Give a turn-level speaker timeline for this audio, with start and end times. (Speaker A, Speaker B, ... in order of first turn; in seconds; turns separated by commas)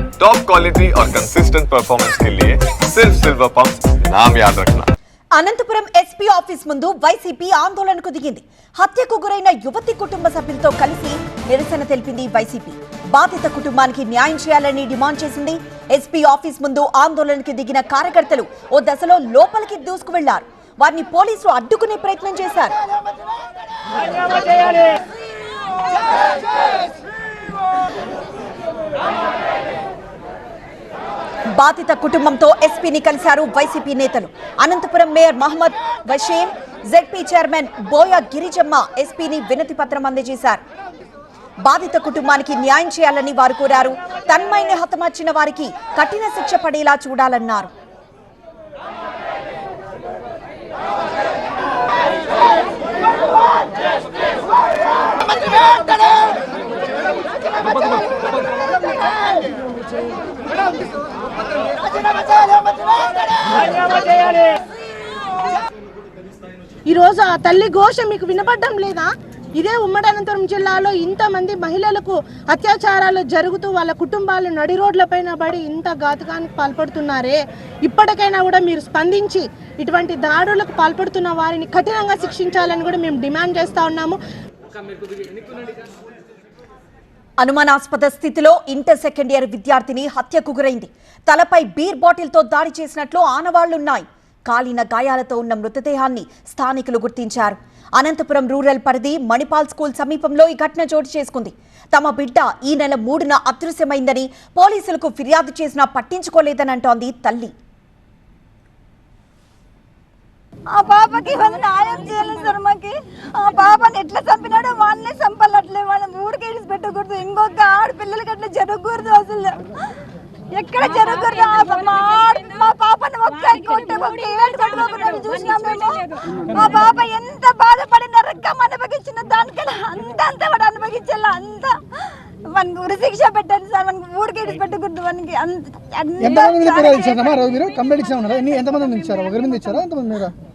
Speaker A: 0.2-4.8, Speaker B: 5.3-22.7, Speaker B: 31.6-40.6, Speaker B: 41.6-47.7, Speaker C: 66.9-84.2, Speaker B: 87.4-107.5, Speaker D: 110.7-119.6, Speaker D: 120.5-139.6, Speaker E: 136.2-140.3